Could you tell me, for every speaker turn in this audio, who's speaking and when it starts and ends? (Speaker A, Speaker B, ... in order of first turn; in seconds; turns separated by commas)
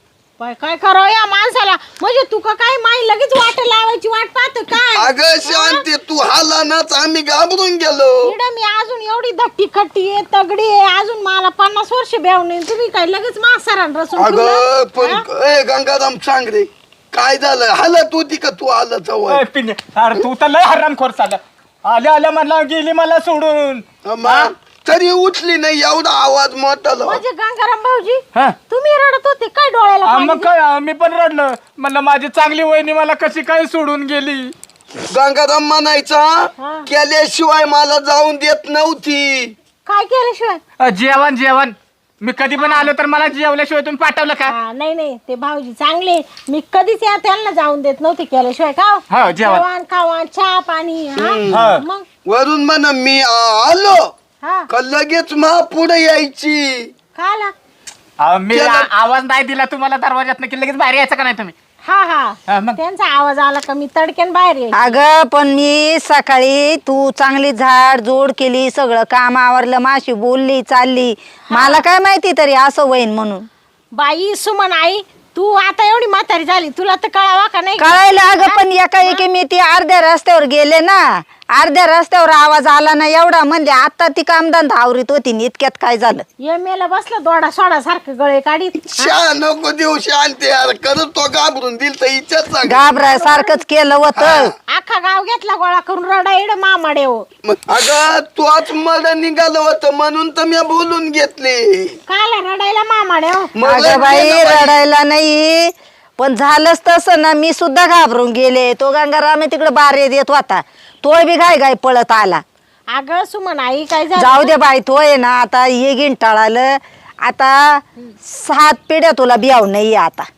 Speaker A: 0.4-5.8, Speaker B: 4.9-8.3, Speaker A: 8.2-15.2, Speaker B: 14.2-19.4, Speaker C: 19.3-24.5, Speaker B: 24.0-27.2, Speaker A: 27.0-30.5, Speaker C: 30.0-34.5, Speaker B: 35.1-39.5, Speaker A: 36.6-36.9, Speaker A: 39.8-40.6, Speaker C: 40.8-44.5, Speaker A: 42.6-42.9, Speaker A: 44.5-52.0, Speaker C: 49.1-49.6, Speaker B: 51.1-51.7, Speaker C: 51.5-51.8, Speaker B: 52.2-54.1, Speaker A: 54.4-54.7, Speaker B: 54.7-56.9, Speaker A: 57.1-57.5, Speaker C: 58.2-61.5, Speaker B: 58.5-58.9, Speaker A: 61.8-65.0, Speaker C: 62.5-62.8, Speaker D: 64.8-73.5, Speaker A: 71.5-71.8, Speaker A: 73.9-79.2, Speaker D: 77.8-86.2, Speaker A: 86.4-89.2, Speaker B: 88.8-92.8, Speaker D: 92.6-94.5, Speaker A: 93.1-93.6, Speaker B: 94.2-94.5, Speaker A: 94.7-97.2, Speaker B: 97.4-102.0, Speaker A: 102.1-104.1, Speaker B: 103.5-104.8, Speaker D: 103.6-112.4, Speaker A: 112.9-114.5, Speaker D: 114.2-120.2